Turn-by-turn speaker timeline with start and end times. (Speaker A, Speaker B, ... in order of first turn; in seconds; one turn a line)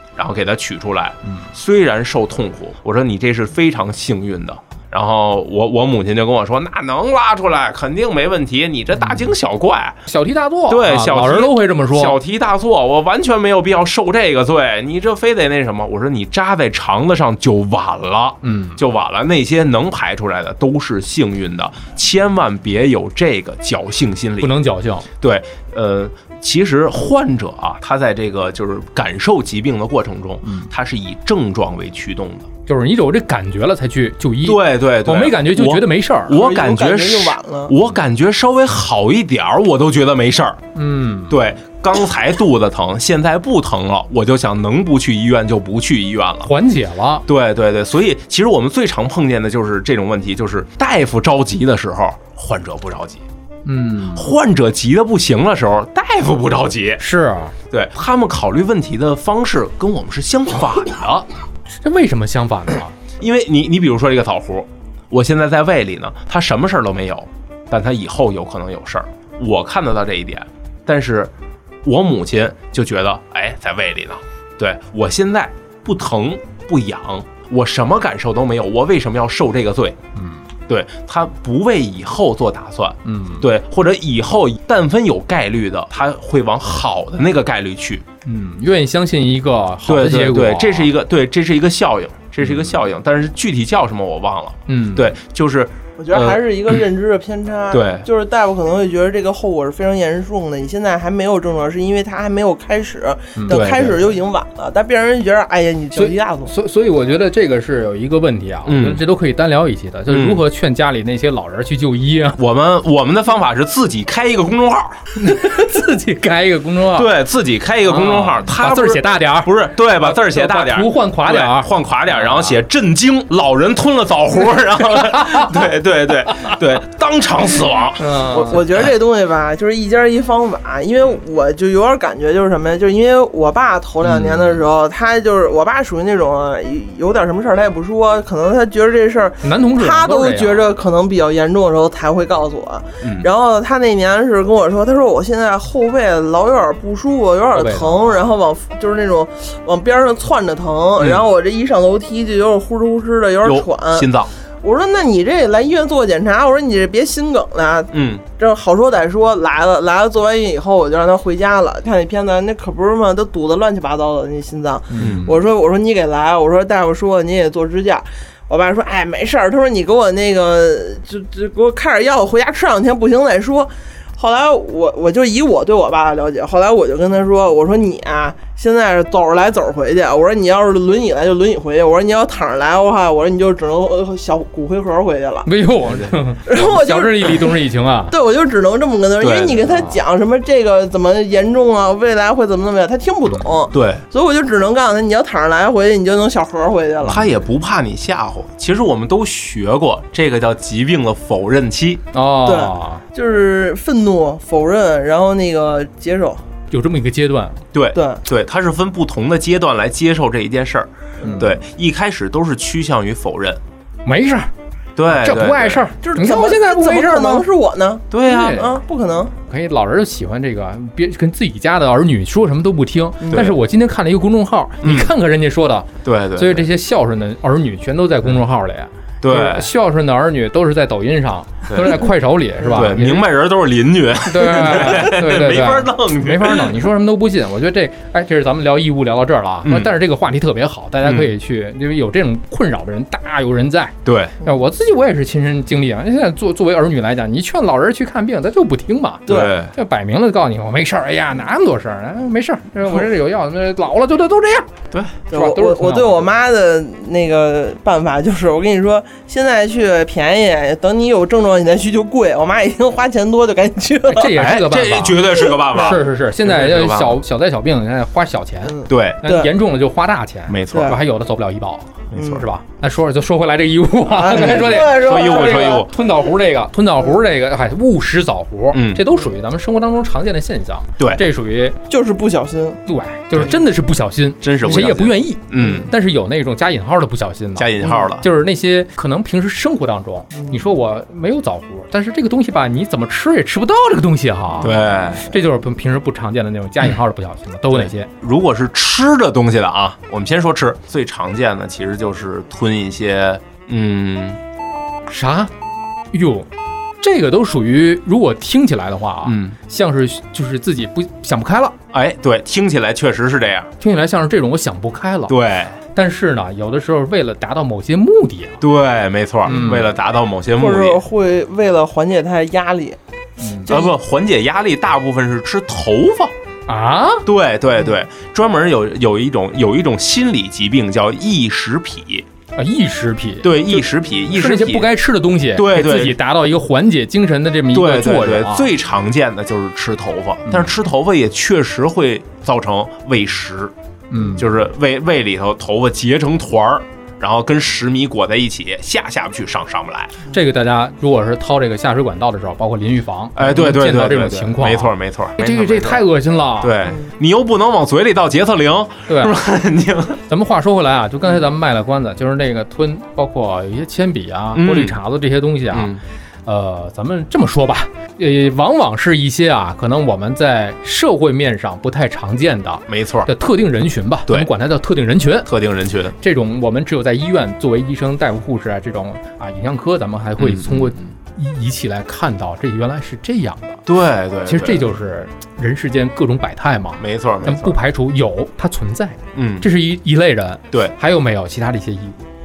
Speaker A: 0.2-10.0
Speaker B: 10.1-12.2
Speaker A: 10.7-24.5
Speaker B: 18.4-18.8
Speaker B: 24.4-25.1
Speaker A: 25.2-32.5
Speaker B: 30.4-30.7
Speaker B: 32.7-36.4
Speaker A: 34.4-40.6
Speaker C: 36.3-37.8
Speaker B: 40.8-41.4
Speaker A: 41.3-46.5
Speaker B: 46.5-47.2
Speaker A: 47.3-53.2
Speaker B: 53.6-54.3
Speaker A: 54.1-57.0
Speaker B: 57.0-57.6
Speaker A: 57.7-61.3
Speaker B: 61.8-63.0
Speaker A: 63.2-71.3
Speaker A: 71.8-80.0
Speaker B: 80.2-80.4
Speaker A: 80.7-88.0
Speaker B: 83.0-83.5
Speaker B: 88.2-90.9
Speaker A: 89.9-96.4
Speaker B: 94.7-95.1
Speaker C: 96.0-106.5
Speaker A: 97.7-98.1
Speaker B: 103.4-103.7
Speaker A: 103.5-104.0
Speaker B: 106.0-112.4
Speaker A: 108.7-109.0
Speaker A: 110.1-110.4
Speaker A: 112.4-115.0
Speaker B: 115.2-117.1
Speaker A: 117.0-128.2
Speaker B: 117.9-122.6
Speaker B: 125.1-125.5
Speaker B: 128.0-128.6
Speaker C: 128.3-154.1
Speaker B: 134.1-134.5
Speaker B: 139.4-140.7
Speaker A: 143.0-143.3
Speaker B: 147.6-148.2
Speaker A: 151.0-151.2
Speaker A: 153.4-154.3
Speaker C: 154.6-185.5
Speaker A: 157.9-158.2
Speaker B: 164.9-165.4
Speaker A: 165.0-165.3
Speaker B: 185.5-188.2
Speaker A: 185.9-186.2
Speaker C: 186.5-187.6
Speaker C: 188.1-197.3
Speaker A: 189.2-189.7
Speaker B: 189.7-190.0
Speaker A: 193.7-194.0
Speaker A: 197.1-202.0
Speaker B: 202.1-203.0
Speaker C: 202.4-206.4
Speaker B: 206.7-207.6
Speaker A: 207.7-213.6
Speaker C: 207.9-208.2
Speaker C: 211.2-211.5
Speaker B: 211.2-211.5
Speaker B: 214.1-214.5
Speaker A: 215.0-215.8
Speaker B: 215.1-217.4
Speaker C: 216.0-219.3
Speaker A: 218.1-218.6
Speaker B: 218.2-218.8
Speaker B: 219.5-233.2
Speaker A: 223.3-223.6
Speaker A: 224.8-225.1
Speaker A: 226.0-226.7
Speaker A: 229.2-229.7
Speaker A: 231.7-232.0
Speaker A: 232.7-236.8
Speaker B: 234.3-254.7
Speaker A: 239.6-239.9
Speaker A: 241.0-241.3
Speaker A: 244.1-244.4
Speaker C: 249.3-249.5
Speaker A: 249.3-249.7
Speaker A: 254.9-255.2
Speaker B: 255.3-256.3
Speaker C: 255.3-264.4
Speaker B: 264.1-281.8
Speaker A: 264.3-267.2
Speaker C: 268.7-269.5
Speaker A: 268.9-269.2
Speaker A: 270.5-271.0
Speaker C: 270.7-271.0
Speaker C: 272.1-272.4
Speaker C: 274.1-275.9
Speaker A: 274.8-275.9
Speaker A: 278.7-279.0
Speaker C: 281.9-282.8
Speaker B: 282.9-298.1
Speaker A: 284.4-285.9
Speaker A: 287.6-288.3
Speaker A: 294.6-295.3
Speaker A: 297.7-304.4
Speaker B: 305.1-305.5
Speaker B: 306.1-306.5
Speaker B: 307.0-311.8
Speaker A: 309.2-309.6
Speaker A: 311.9-313.7
Speaker B: 313.8-315.4
Speaker A: 315.3-315.8
Speaker B: 315.9-318.6
Speaker A: 318.6-321.0
Speaker B: 319.4-319.9
Speaker C: 320.6-323.0
Speaker B: 323.4-323.7
Speaker C: 323.6-323.9
Speaker A: 323.7-326.3
Speaker B: 326.7-327.3
Speaker A: 327.2-332.3
Speaker B: 332.6-338.7
Speaker A: 333.4-334.9
Speaker A: 335.6-336.2
Speaker A: 337.7-343.7
Speaker B: 344.1-344.5
Speaker A: 344.3-350.2
Speaker B: 350.3-356.8
Speaker A: 353.4-356.1
Speaker A: 356.6-360.2
Speaker B: 359.1-359.4
Speaker B: 360.3-365.9
Speaker A: 364.6-365.0
Speaker A: 365.7-366.0
Speaker B: 366.5-375.5
Speaker A: 372.9-373.3
Speaker A: 375.5-376.2
Speaker B: 376.2-383.8
Speaker A: 380.4-381.0
Speaker A: 383.9-384.8
Speaker B: 384.5-392.3
Speaker A: 387.0-387.8
Speaker A: 389.4-389.7